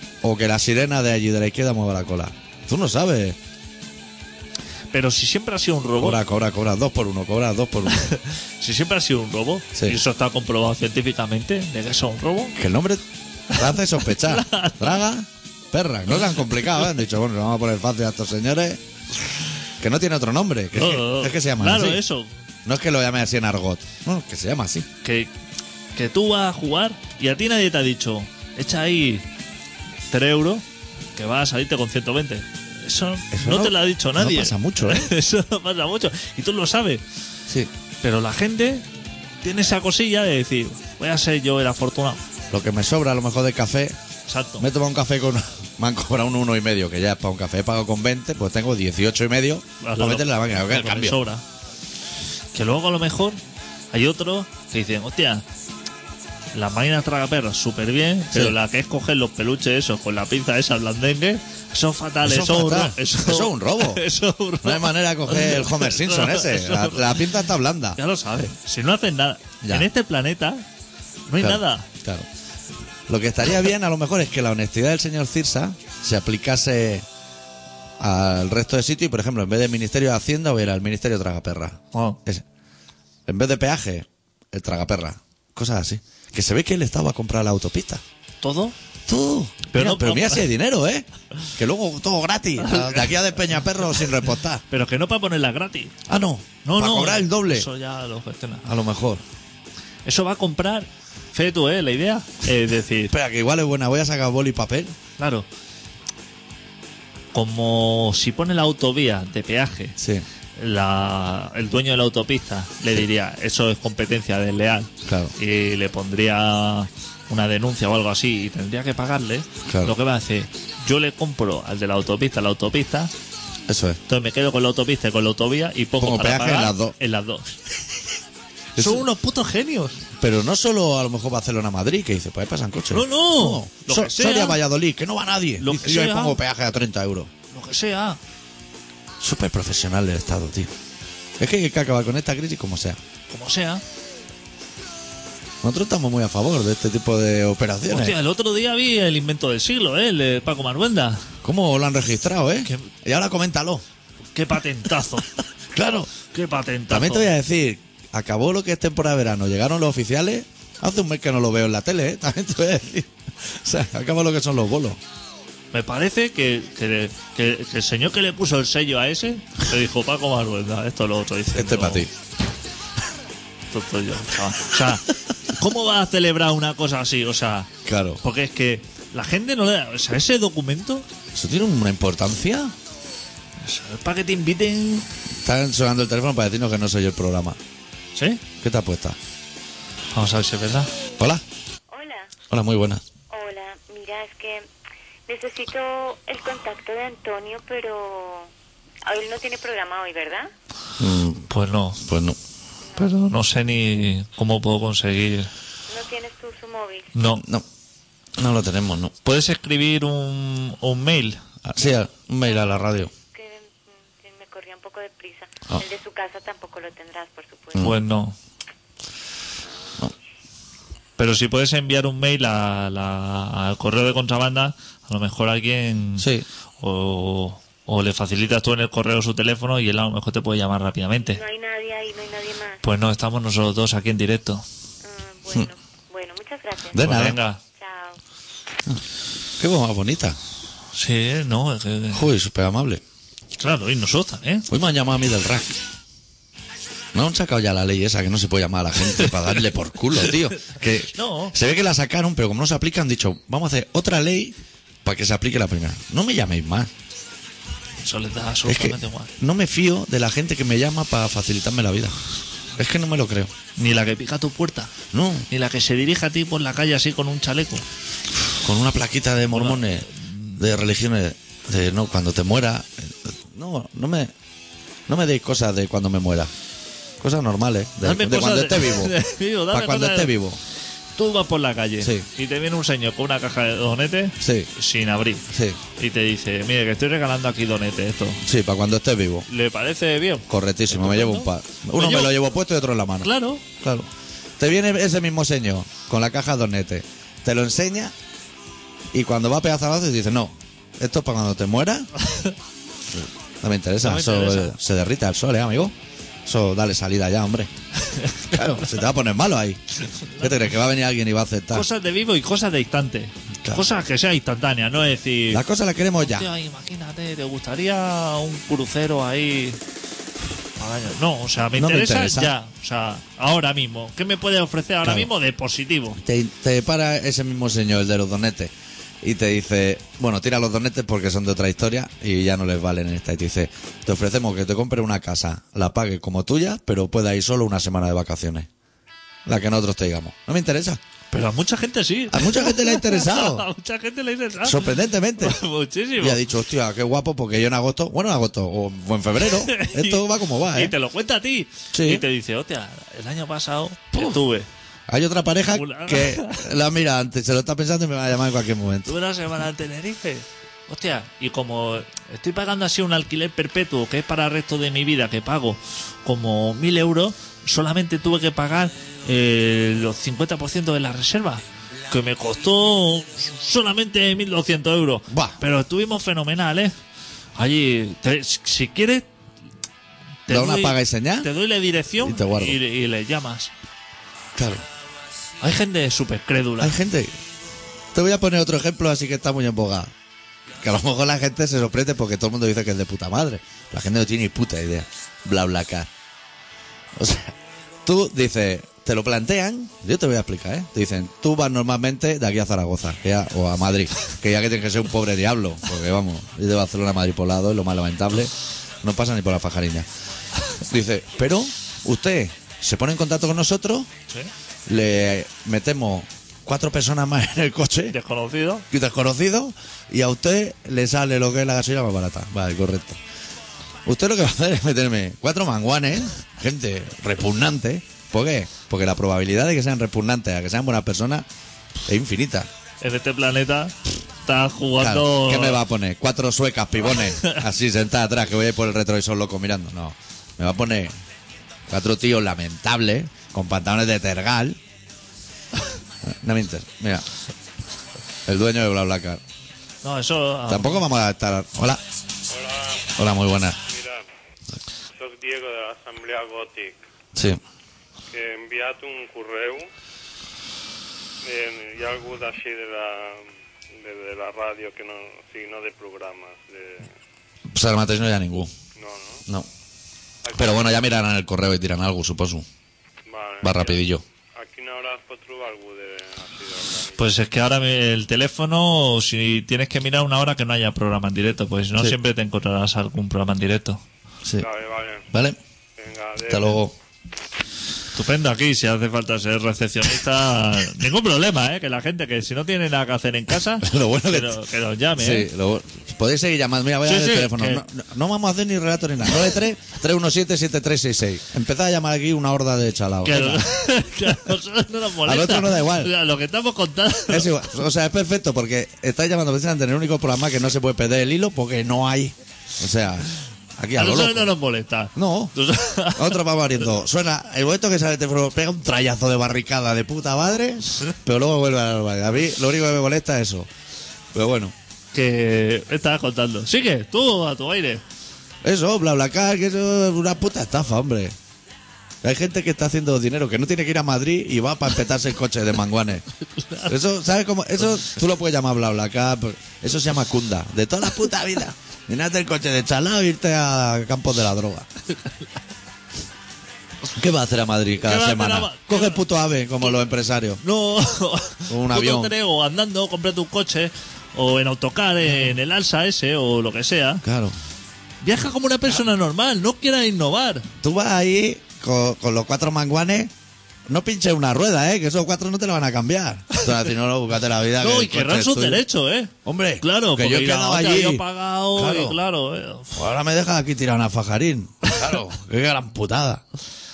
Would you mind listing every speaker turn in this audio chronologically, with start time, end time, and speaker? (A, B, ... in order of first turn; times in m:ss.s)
0:00.2-0:03.4 A
0:04.9-0:06.2 B
0:06.0-0:08.1 A
0:07.9-0:12.6 B
0:12.5-0:18.8 A
0:13.5-0:15.0 B
0:19.8-0:22.0 A
0:20.7-0:22.3 B
0:22.6-0:24.9 A
0:25.0-0:25.3 B
0:25.9-0:29.2 B
0:30.1-0:30.6 B
0:31.1-0:37.0 B
0:33.3-0:35.1 A
0:38.0-0:38.8 B
0:39.4-0:42.2 B
0:42.5-0:44.0 A
0:44.2-0:44.6 B
0:44.6-0:51.2 A
0:49.8-0:51.4 B
0:52.5-0:53.4 B
0:53.9-0:55.4 B
0:56.5-1:07.3 B
1:02.2-1:04.0 A
1:04.6-1:08.0 A
1:08.0-1:10.6 B
1:09.6-1:09.9 A
1:11.3-1:11.9 B
1:11.4-1:12.3 A
1:13.1-1:17.0 A
1:18.0-1:22.4 A
1:21.9-1:22.2 B
1:23.2-1:28.0 A
1:28.4-1:28.7 B
1:29.1-1:34.6 A
1:29.7-1:30.5 B
1:32.6-1:33.2 B
1:34.7-1:35.9 B
1:36.0-1:37.7 A
1:36.6-1:38.6 B
1:38.6-1:39.2 A
1:40.0-1:43.1 B
1:43.1-1:44.9 A
1:45.2-1:45.5 B
1:47.3-1:50.0 B
1:50.0-1:50.2 A
1:50.6-2:03.1 B
1:55.0-1:55.3 A
1:59.6-1:59.9 A
2:03.7-2:04.0 A
2:04.1-2:07.5 B
2:06.0-2:06.9 A
2:08.8-2:09.0 A
2:08.8-2:10.0 B
2:10.2-2:17.3 A
2:12.9-2:14.6 B
2:15.6-2:16.4 B
2:17.5-2:18.2 B
2:19.2-2:20.7 A
2:21.4-2:23.0 A
2:23.3-2:23.8 B
2:25.6-2:28.2 A
2:27.9-2:31.2 B
2:31.4-2:33.8 A
2:34.3-2:35.3 B
2:35.7-2:36.1 A
2:36.2-2:37.3 B
2:36.9-2:45.0 A
2:45.7-2:52.1 B
2:51.5-2:52.1 A
2:53.7-2:57.7 B
2:57.8-2:58.2 A
2:58.2-3:01.0 B
3:01.3-3:02.7 A
3:03.6-3:05.0 B
3:05.4-3:07.6 A
3:08.1-3:08.4 B
3:08.6-3:09.2 A
3:10.1-3:10.9 B
3:11.9-3:12.3 C
3:12.5-3:13.0 A
3:13.3-3:14.7 C
3:15.3-3:18.5 C
3:19.0-3:20.5 C
3:21.0-3:21.5 A
3:21.5-3:22.0 B
3:22.0-3:22.4 A
3:22.9-3:23.3 C
3:23.0-3:25.5 B
3:25.9-3:27.1 C
3:27.1-3:27.4 B
3:27.4-3:27.6 A
3:28.4-3:29.1 A
3:29.2-3:31.4 B
3:31.6-3:33.1 A
3:33.3-3:37.9 C
3:37.8-3:38.4 B
3:41.2-3:51.4 B
3:46.2-3:46.4 A
3:51.3-3:52.8 C
3:52.8-3:54.6 B
3:55.0-3:57.0 C
3:56.9-3:57.4 A
3:57.0-3:57.6 B
3:57.8-3:58.2 C
3:59.6-4:00.4 A
4:00.9-4:02.3 B
4:02.1-4:03.0 A
4:03.6-4:04.7 B
4:04.7-4:05.8 A
4:07.1-4:16.9 A
4:10.6-4:11.6 B
4:18.0-4:19.3 B
4:18.6-4:22.2 A
4:22.8-4:23.5 A
4:23.8-4:24.9 B
4:25.1-4:25.5 A
4:25.5-4:27.8 B
4:28.4-4:34.3 A
4:29.5-4:30.6 B
4:35.1-4:36.5 A
4:37.2-4:39.2 A
4:38.0-4:40.3 B
4:39.7-4:40.6 A
4:41.2-4:48.4 B
4:44.4-4:44.7 A
4:45.5-4:45.8 A
4:48.4-4:49.5 A
4:49.5-4:52.4 B
4:50.5-4:58.1 A
4:53.2-4:53.6 B
4:59.1-5:02.1 A
5:02.2-5:02.5 B
5:03.1-5:07.7 A
5:04.0-5:04.8 B
5:08.0-5:08.8 B
5:08.4-5:09.8 A
5:10.2-5:10.6 B
5:10.4-5:11.9 A
5:11.7-5:15.6 B
5:15.5-5:16.5 A
5:16.2-5:19.8 B
5:20.8-5:26.2 B
5:21.8-5:22.5 A
5:25.0-5:25.3 A
5:26.2-5:38.7 A
5:39.4-5:41.0 A
5:41.3-5:46.4 B
5:42.3-5:43.7 A
5:44.6-5:45.6 A
5:46.2-5:50.9 A
5:49.4-5:54.7 B
5:51.9-5:52.2 A
5:54.1-5:54.4 A
5:55.1-5:59.1 A
5:55.7-5:56.7 B
5:59.0-6:16.9 B
6:15.3-6:15.6 A
6:17.6-6:19.3 B
6:20.5-6:23.7 B
6:20.5-6:21.5 A
6:22.2-6:22.8 A
6:24.6-6:24.8 A
6:25.6-6:27.0 B
6:26.8-6:27.3 A
6:28.1-6:30.1 A
6:30.8-6:36.1 A
6:37.1-6:50.1 A
6:50.8-6:54.1 A
6:54.9-6:58.2 A
6:58.1-6:58.8 B
6:58.9-7:03.2 A
7:04.0-7:11.4 A
7:12.0-7:12.7 A
7:13.0-7:15.8 B
7:15.0-7:21.1 A
7:17.2-7:17.6 B
7:21.9-7:24.8 A
7:26.2-7:27.2 A
7:28.4-7:29.4 A
7:30.0-7:31.0 B
7:30.7-7:32.0 A
7:32.5-7:33.1 D
7:33.2-7:33.8 A
7:33.9-7:34.2 D
7:35.2-7:37.0 D
7:37.3-7:37.6 A
7:38.3-7:39.9 D
7:41.4-7:47.1 D
7:47.7-7:48.7 A
7:48.9-7:49.4 D
7:50.4-7:51.0 D
7:50.5-7:52.6 A
7:53.2-7:54.0 D
7:53.6-7:54.2 A
7:54.6-7:57.3 D
7:57.2-8:04.0 B
8:04.6-8:05.3 D
8:05.3-8:05.6 A
8:06.0-8:06.8 D
8:06.5-8:06.9 A
8:08.1-8:15.5 B
8:13.8-8:14.6 A
8:15.1-8:23.7 A
8:17.0-8:17.8 B
8:23.2-8:27.5 B
8:25.2-8:26.1 A
8:27.3-8:34.5 A
8:34.0-8:36.4 B
8:35.1-8:35.5 A
8:36.1-8:43.7 A
8:44.3-8:44.7 A
8:45.1-8:48.0 B
8:48.6-8:51.3 A
8:52.2-8:56.2 A
8:56.5-8:56.9 B
8:56.9-9:04.9 A
9:07.1-9:10.6 A
9:08.0-9:09.2 B
9:10.6-9:17.2 B
9:11.7-9:12.3 A
9:17.2-9:17.6 A
9:18.2-9:20.7 B
9:20.8-9:23.3 A
9:23.9-9:28.8 A
9:27.8-9:33.0 B
9:29.4-9:32.2 A
9:32.9-9:36.4 A